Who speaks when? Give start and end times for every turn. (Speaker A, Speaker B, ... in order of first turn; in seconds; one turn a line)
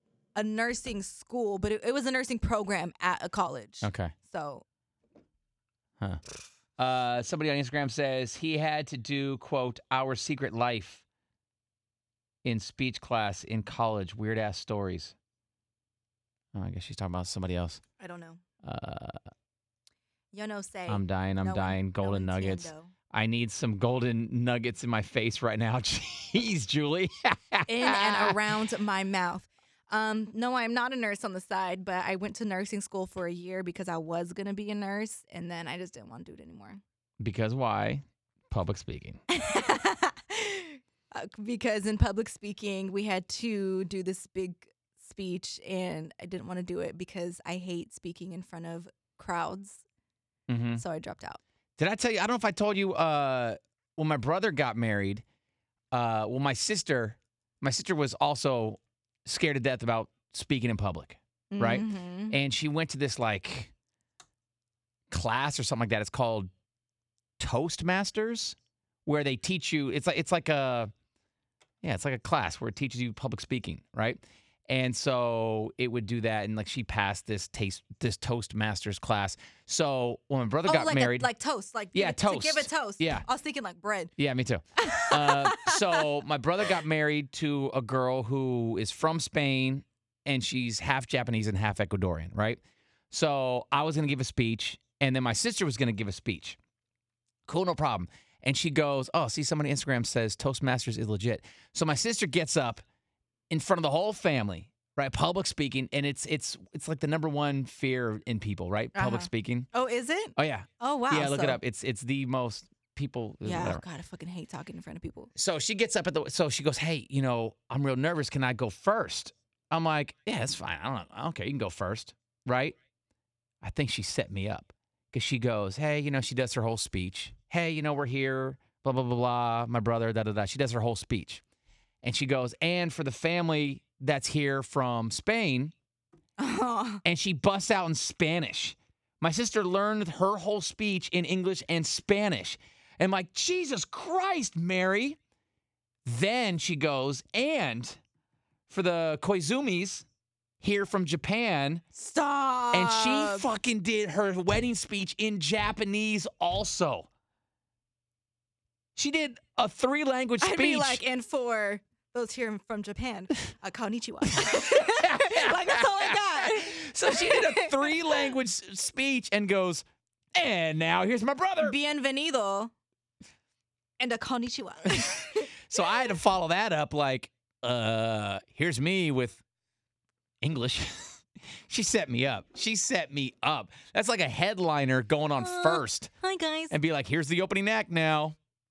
Speaker A: 0.3-4.6
Speaker B: 3.8-4.1
Speaker B: 6.8-11.0
Speaker B: 12.4-15.1
Speaker B: 16.5-17.8
Speaker A: 18.0-18.4
Speaker B: 18.6-19.2
Speaker A: 20.3-22.9
Speaker B: 20.9-28.4
Speaker A: 27.7-36.8
Speaker B: 37.2-39.2
Speaker A: 39.3-49.8
Speaker B: 50.5-50.8
Speaker A: 50.8-51.4
Speaker B: 51.8-55.2
Speaker B: 55.9-63.7
Speaker A: 61.5-62.4
Speaker B: 65.1-66.5
Speaker B: 67.4-70.9
Speaker B: 71.8-81.3
Speaker A: 80.7-84.1
Speaker B: 81.9-83.2
Speaker B: 84.2-96.6
Speaker A: 84.8-86.1
Speaker B: 97.5-102.8
Speaker B: 103.5-109.7
Speaker A: 108.9-111.6
Speaker B: 110.4-113.8
Speaker A: 113.4-115.3
Speaker B: 115.3-122.8
Speaker B: 123.6-131.4
Speaker B: 132.0-135.7
Speaker A: 136.4-137.0
Speaker B: 137.0-145.2
Speaker B: 146.0-148.0
Speaker B: 148.7-150.1
Speaker B: 150.6-151.8
Speaker A: 151.9-153.5
Speaker B: 152.7-157.1
Speaker B: 158.9-161.0
Speaker A: 160.4-168.3
Speaker B: 164.3-169.8
Speaker B: 170.3-171.8
Speaker A: 171.6-172.7
Speaker A: 174.0-176.0
Speaker B: 174.9-179.4
Speaker B: 180.4-186.1
Speaker A: 185.4-186.8
Speaker B: 186.7-188.3